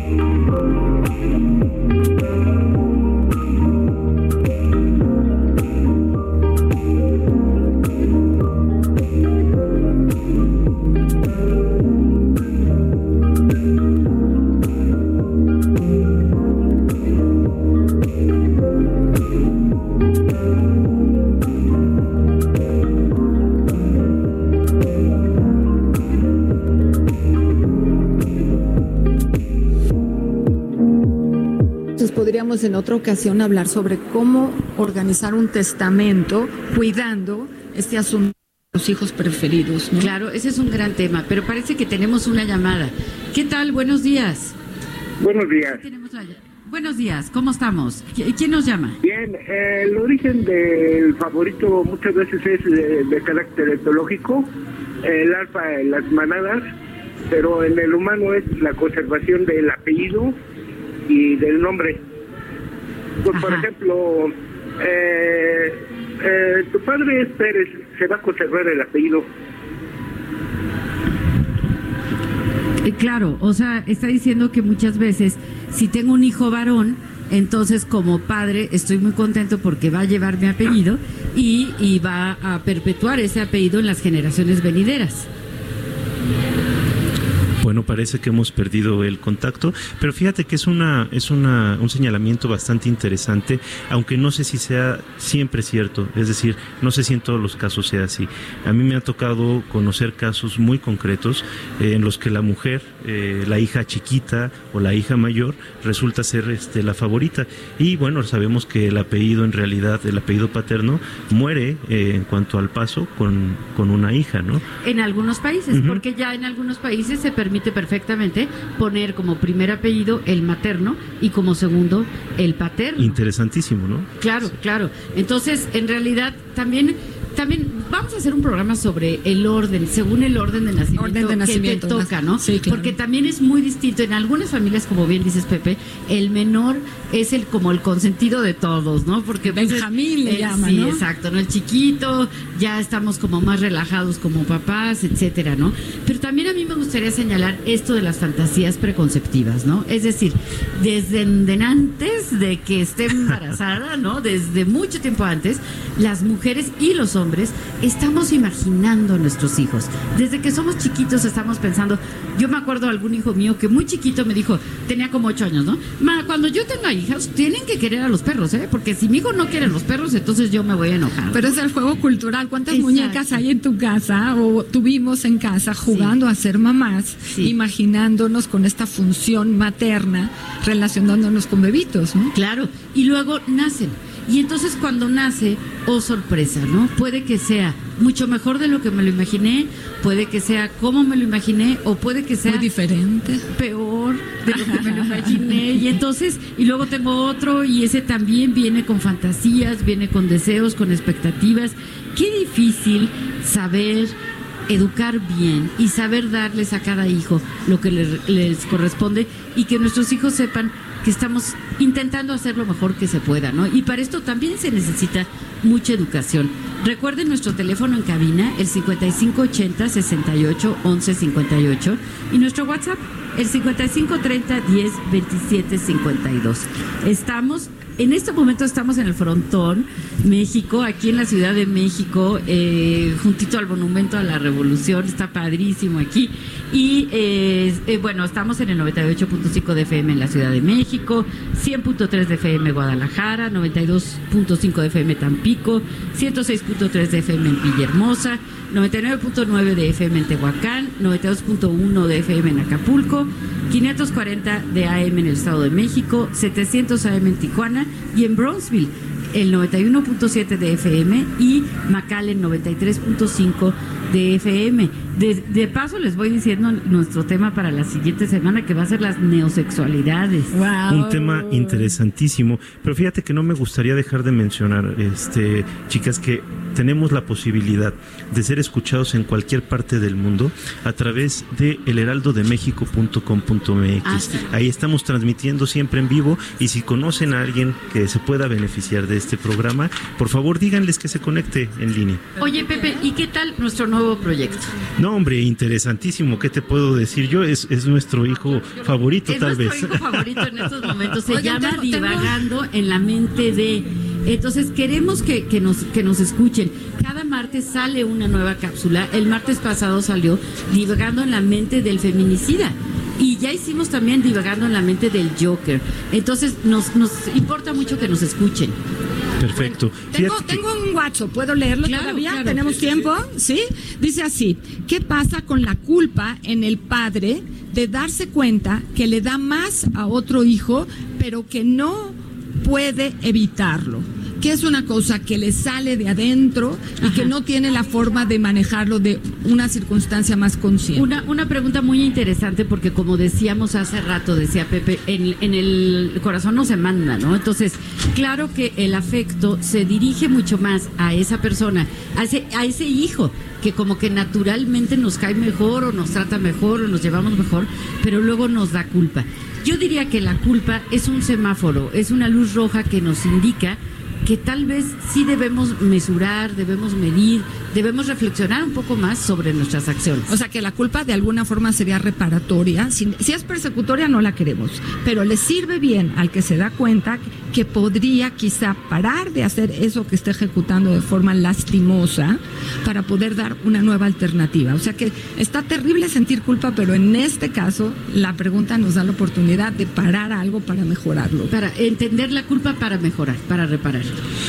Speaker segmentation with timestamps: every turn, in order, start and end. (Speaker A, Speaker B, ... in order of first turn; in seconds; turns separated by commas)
Speaker A: 32.0-40.1, Speaker B: 39.9-44.5, Speaker C: 45.2-45.8, Speaker B: 45.5-49.0, Speaker C: 49.0-54.5, Speaker C: 55.0-56.6, Speaker C: 57.3-60.3, Speaker C: 61.1-62.0, Speaker C: 63.2-69.3, Speaker B: 63.3-63.7, Speaker B: 72.8-85.3, Speaker D: 87.6-114.6, Speaker B: 114.8-123.2, Speaker D: 115.7-116.0, Speaker D: 123.0-124.1, Speaker B: 124.2-171.6, Speaker A: 131.0-132.9, Speaker A: 139.4-141.0, Speaker A: 171.3-182.3, Speaker B: 172.7-173.4, Speaker B: 175.8-176.2, Speaker B: 177.3-177.6, Speaker B: 182.3-192.7, Speaker A: 192.5-193.4, Speaker B: 193.5-204.2, Speaker A: 194.5-195.6, Speaker B: 204.7-270.6, Speaker A: 270.5-271.9, Speaker D: 270.9-292.3, Speaker B: 284.1-284.4, Speaker B: 292.4-294.7, Speaker A: 292.4-293.1, Speaker D: 295.0-300.9, Speaker B: 299.3-318.8, Speaker A: 301.3-302.4, Speaker D: 319.4-320.6, Speaker A: 319.5-341.1, Speaker B: 321.8-323.1, Speaker B: 337.0-337.3, Speaker B: 340.9-370.3, Speaker A: 370.3-391.5, Speaker B: 391.5-394.2